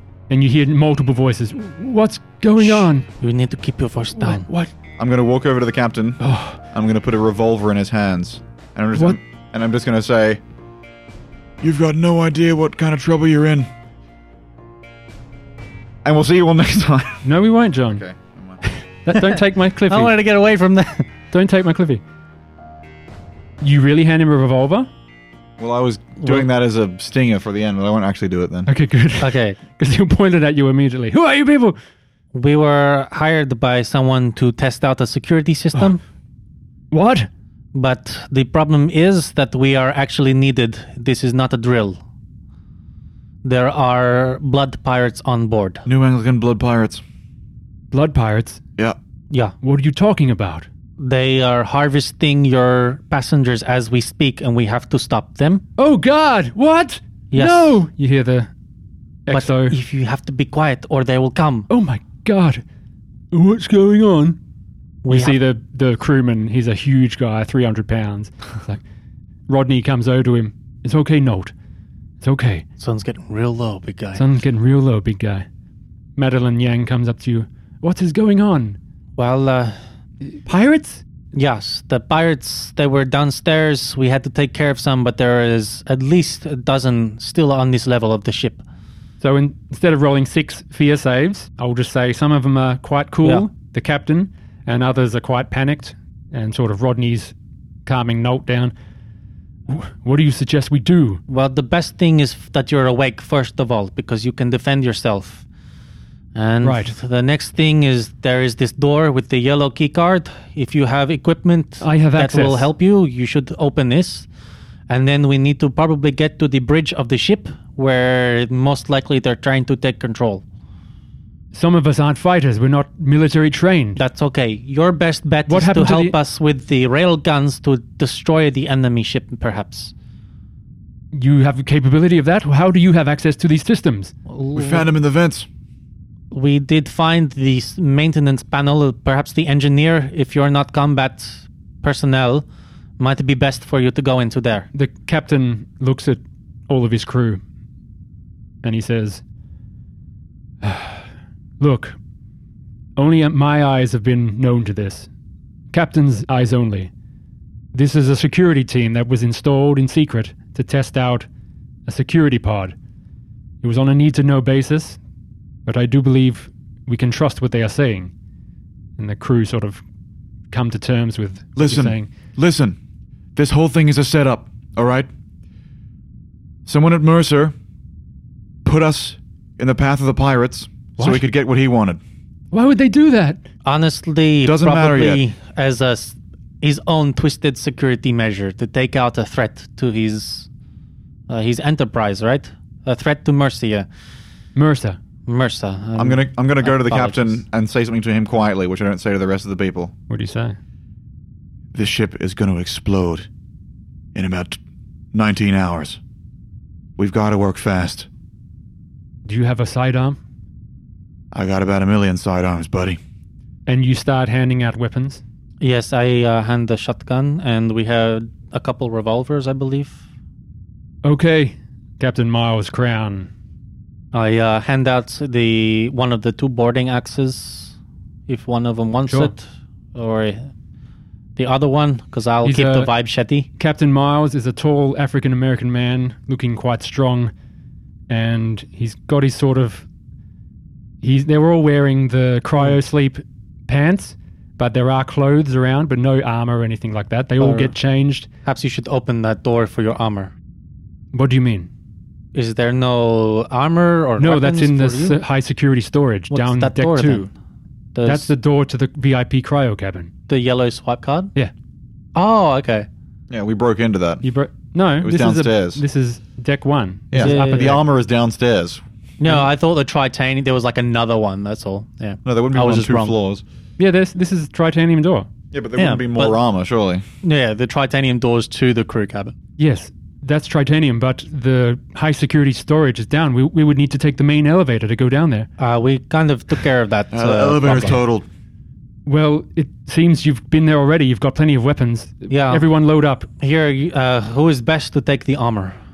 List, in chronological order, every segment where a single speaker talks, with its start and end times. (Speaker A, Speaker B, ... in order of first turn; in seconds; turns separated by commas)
Speaker A: 0.3-3.1, Speaker B: 2.6-4.5, Speaker A: 4.2-4.7, Speaker C: 5.0-10.4, Speaker A: 6.2-6.6, Speaker C: 11.6-13.7, Speaker C: 16.0-17.3, Speaker A: 17.2-18.0, Speaker C: 17.9-18.6, Speaker A: 18.6-20.1, Speaker B: 19.9-21.1, Speaker A: 21.3-22.0, Speaker A: 23.6-24.9, Speaker C: 25.6-28.7, Speaker A: 28.7-31.8, Speaker B: 29.2-29.6, Speaker B: 32.3-36.0, Speaker A: 36.9-37.3, Speaker B: 37.7-42.0, Speaker B: 43.4-45.8, Speaker C: 45.9-47.0, Speaker A: 47.9-48.6, Speaker B: 49.3-49.6, Speaker A: 49.6-50.7, Speaker B: 51.0-55.6, Speaker A: 55.8-58.5, Speaker B: 57.3-57.8, Speaker A: 59.3-59.8, Speaker B: 59.3-61.7, Speaker A: 61.7-62.6, Speaker A: 63.3-64.4, Speaker B: 65.0-65.4, Speaker A: 65.1-68.8, Speaker A: 69.5-71.5, Speaker A: 72.2-72.7, Speaker B: 72.8-74.3, Speaker A: 74.2-75.5, Speaker A: 76.2-78.8, Speaker B: 79.2-79.8, Speaker A: 80.5-81.0, Speaker B: 81.3-88.6, Speaker A: 89.2-97.3, Speaker A: 97.9-98.7, Speaker A: 99.7-101.2, Speaker B: 101.3-105.5, Speaker B: 106.3-114.3, Speaker A: 106.6-107.0, Speaker A: 111.8-112.7, Speaker B: 114.9-120.4, Speaker A: 121.5-124.0, Speaker B: 124.0-129.9, Speaker A: 125.5-126.2, Speaker A: 131.1-134.1, Speaker B: 134.3-134.9, Speaker C: 134.6-135.5, Speaker B: 136.3-142.4, Speaker B: 143.0-144.7, Speaker A: 144.7-147.4, Speaker A: 148.6-149.2, Speaker A: 150.6-151.1, Speaker A: 151.6-152.0, Speaker A: 153.0-155.1, Speaker A: 155.7-156.9, Speaker A: 157.7-161.3, Speaker A: 161.9-162.8, Speaker A: 163.6-165.0, Speaker A: 165.7-168.1, Speaker A: 169.0-169.8, Speaker A: 170.5-172.1, Speaker C: 171.6-172.8, Speaker C: 173.4-175.1, Speaker C: 176.7-177.6, Speaker C: 178.7-182.0, Speaker A: 181.0-181.2, Speaker A: 182.5-183.4, Speaker B: 183.7-190.5, Speaker C: 184.4-185.2, Speaker B: 191.3-193.9, Speaker A: 194.6-195.0, Speaker B: 195.3-197.4, Speaker C: 196.0-199.9, Speaker A: 200.1-200.6, Speaker C: 201.7-203.3, Speaker C: 204.2-204.6, Speaker C: 205.1-206.0, Speaker C: 207.0-208.1, Speaker A: 209.2-210.2, Speaker C: 211.3-213.0, Speaker A: 213.7-215.2, Speaker B: 215.6-220.0, Speaker A: 221.0-223.3, Speaker B: 224.1-227.8, Speaker B: 228.3-229.4, Speaker A: 229.1-229.3, Speaker B: 229.9-230.5, Speaker B: 231.4-233.5, Speaker A: 232.4-232.9, Speaker A: 233.6-237.3, Speaker A: 238.1-239.9, Speaker A: 241.0-248.3, Speaker B: 247.4-247.7, Speaker B: 248.4-250.3, Speaker A: 251.1-251.7, Speaker B: 252.3-255.2, Speaker A: 254.2-257.3, Speaker B: 256.3-257.3, Speaker B: 257.9-258.3, Speaker A: 258.0-260.1, Speaker B: 260.3-261.3, Speaker B: 262.1-262.9, Speaker C: 263.3-264.2, Speaker A: 264.2-267.8, Speaker C: 265.0-265.8, Speaker C: 267.1-269.4, Speaker B: 267.1-267.8, Speaker B: 269.2-273.1, Speaker C: 272.2-273.4, Speaker A: 273.8-275.3, Speaker C: 275.5-277.0, Speaker B: 275.8-276.4, Speaker B: 277.2-279.4, Speaker A: 279.6-285.5, Speaker B: 285.6-288.0, Speaker C: 287.1-288.3, Speaker A: 289.1-293.3, Speaker B: 292.3-292.7, Speaker B: 293.4-295.8